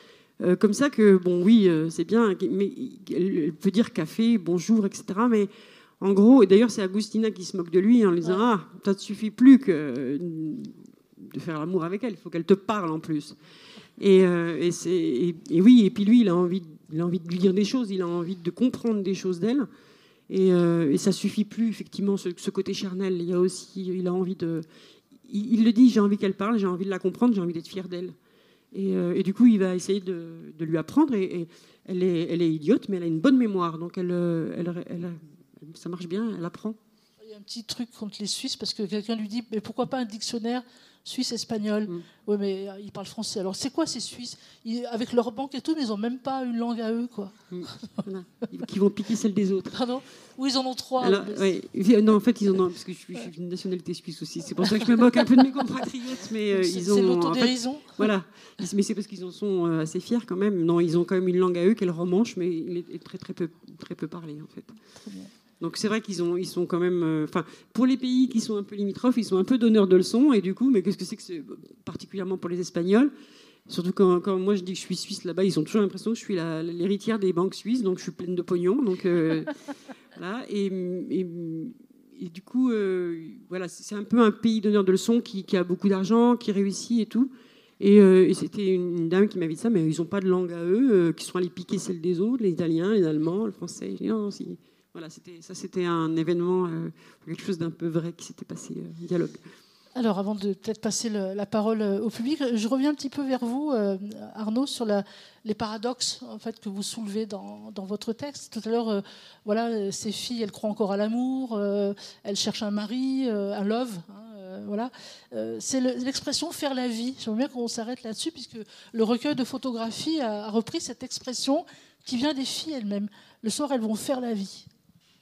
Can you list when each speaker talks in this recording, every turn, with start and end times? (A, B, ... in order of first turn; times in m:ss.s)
0:00.4-0:13.4 A
0:14.0-0:19.7 A
0:20.3-0:24.7 A
0:25.2-0:28.2 A
0:28.7-0:36.8 A
0:37.2-0:47.4 B
0:47.5-0:49.8 A
0:49.8-0:51.5 B
0:51.0-1:04.8 A
0:54.6-0:55.6 B
0:56.5-0:58.1 B
1:05.0-1:05.3 B
1:05.6-1:13.1 A
1:13.7-1:19.6 A
1:20.2-1:39.5 A
1:40.0-2:04.7 B